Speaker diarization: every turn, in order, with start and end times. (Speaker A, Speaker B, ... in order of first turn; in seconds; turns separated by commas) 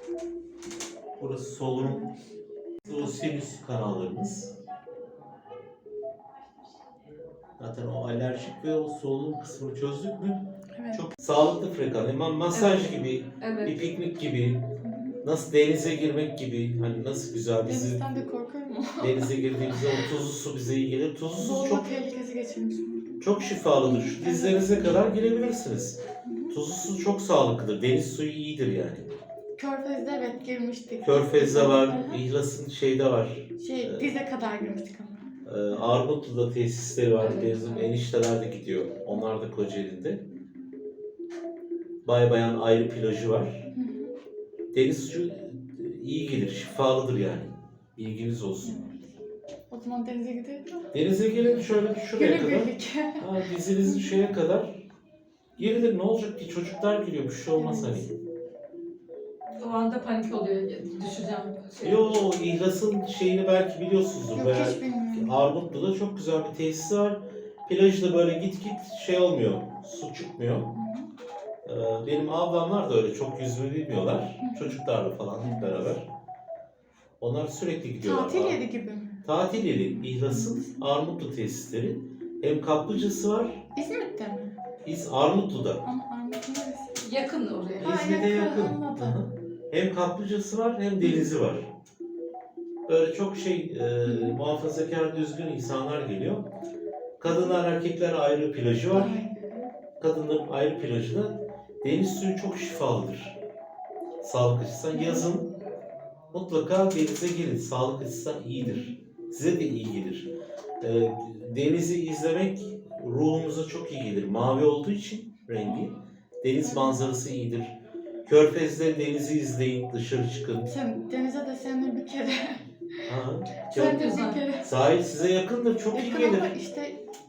Speaker A: 1.2-2.0, Speaker B: 1.8-2.1, Speaker B: 2.8-3.2, Speaker A: 2.9-4.5, Speaker A: 7.6-14.7, Speaker B: 10.7-11.1, Speaker C: 13.4-13.7, Speaker B: 14.8-15.2, Speaker A: 15.2-18.0, Speaker B: 17.6-20.0, Speaker A: 19.0-21.9, Speaker B: 21.4-23.0, Speaker A: 23.2-26.0, Speaker B: 23.8-25.0, Speaker B: 26.2-26.5, Speaker A: 26.5-29.1, Speaker B: 29.6-32.2, Speaker A: 31.0-34.1, Speaker B: 33.6-35.9, Speaker A: 35.4-40.2, Speaker C: 37.1-37.8, Speaker A: 42.0-43.6, Speaker B: 43.7-44.1, Speaker A: 44.7-48.8, Speaker B: 48.6-49.0, Speaker B: 49.7-50.9, Speaker A: 50.9-54.8, Speaker B: 52.1-53.3, Speaker B: 53.8-54.2, Speaker A: 55.6-58.1, Speaker B: 57.6-58.1, Speaker C: 59.5-62.2, Speaker A: 61.8-70.7, Speaker B: 64.3-65.3, Speaker B: 70.7-71.1, Speaker A: 71.6-76.1, Speaker B: 74.4-74.7, Speaker B: 75.4-75.9, Speaker A: 77.2-78.6, Speaker B: 78.0-79.2, Speaker A: 79.2-83.6, Speaker B: 79.8-80.7, Speaker B: 83.7-84.6, Speaker A: 84.8-85.8, Speaker B: 85.8-87.2, Speaker C: 87.0-87.9, Speaker B: 87.7-89.2, Speaker A: 87.8-91.7, Speaker B: 91.0-91.3, Speaker A: 92.9-96.5, Speaker B: 94.0-94.4, Speaker A: 97.2-99.2, Speaker B: 97.2-97.6, Speaker B: 98.9-99.6, Speaker A: 100.0-103.4, Speaker A: 104.2-105.5, Speaker B: 104.9-105.3, Speaker A: 106.3-110.3, Speaker B: 108.5-108.9, Speaker A: 110.8-117.7, Speaker B: 115.6-115.9, Speaker B: 116.6-117.0, Speaker A: 118.2-120.7, Speaker B: 120.7-122.6, Speaker A: 123.1-126.5, Speaker B: 123.7-124.6, Speaker C: 123.9-124.4, Speaker B: 125.9-127.0